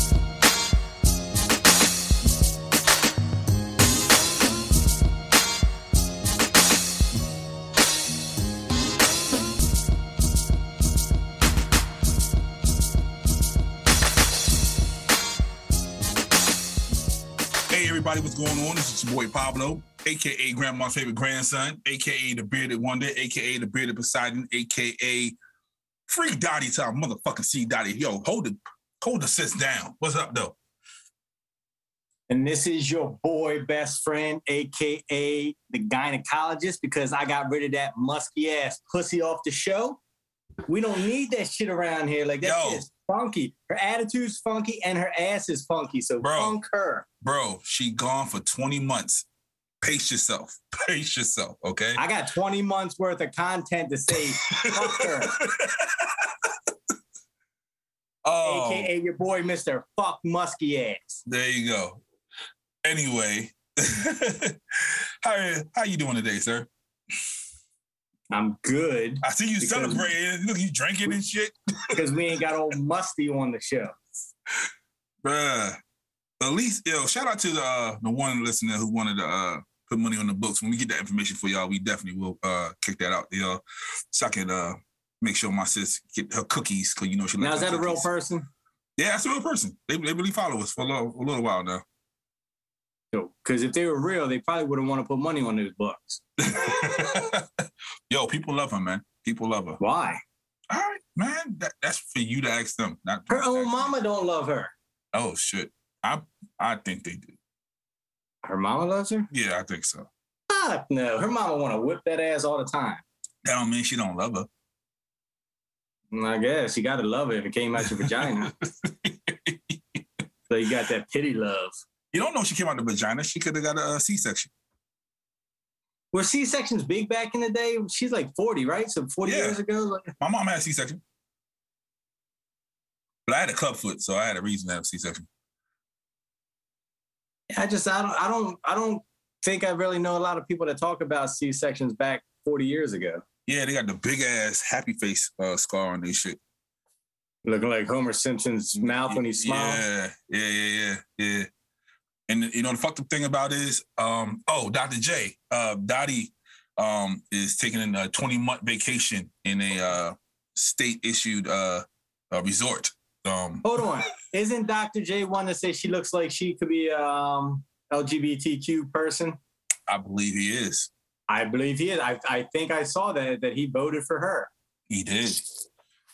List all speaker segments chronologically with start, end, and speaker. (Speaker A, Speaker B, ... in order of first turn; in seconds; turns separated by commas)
Speaker A: 17.7-25.4, Speaker A: 26.1-30.6, Speaker B: 32.3-40.0, Speaker B: 40.7-47.1, Speaker A: 42.4-42.8, Speaker A: 46.2-46.5, Speaker A: 47.2-49.2, Speaker A: 49.8-52.0, Speaker B: 52.0-55.4, Speaker A: 54.1-56.5, Speaker A: 58.2-58.9, Speaker B: 58.4-61.2, Speaker A: 61.2-62.0, Speaker A: 62.8-66.7, Speaker B: 68.3-70.1, Speaker A: 69.2-72.0, Speaker B: 71.9-74.0, Speaker A: 75.2-75.8, Speaker A: 76.4-88.1, Speaker B: 87.4-88.5, Speaker A: 89.0-91.8, Speaker B: 93.1-96.2, Speaker A: 96.4-99.8, Speaker B: 99.8-100.2, Speaker A: 100.7-103.9, Speaker B: 103.3-104.7, Speaker A: 105.1-107.3, Speaker B: 108.4-109.3, Speaker A: 109.3-110.1, Speaker B: 110.5-113.0, Speaker A: 113.4-114.5, Speaker B: 116.1-118.5, Speaker A: 117.8-120.0, Speaker B: 120.5-121.7, Speaker A: 122.1-124.5, Speaker B: 126.1-130.1, Speaker A: 129.2-129.6, Speaker A: 130.2-131.0, Speaker A: 133.2-135.3, Speaker B: 137.5-143.2, Speaker A: 143.5-146.4, Speaker B: 147.4-149.8, Speaker A: 148.8-151.5, Speaker A: 152.3-163.6, Speaker B: 163.6-169.4, Speaker A: 169.9-170.9, Speaker B: 171.3-174.5, Speaker A: 174.9-175.4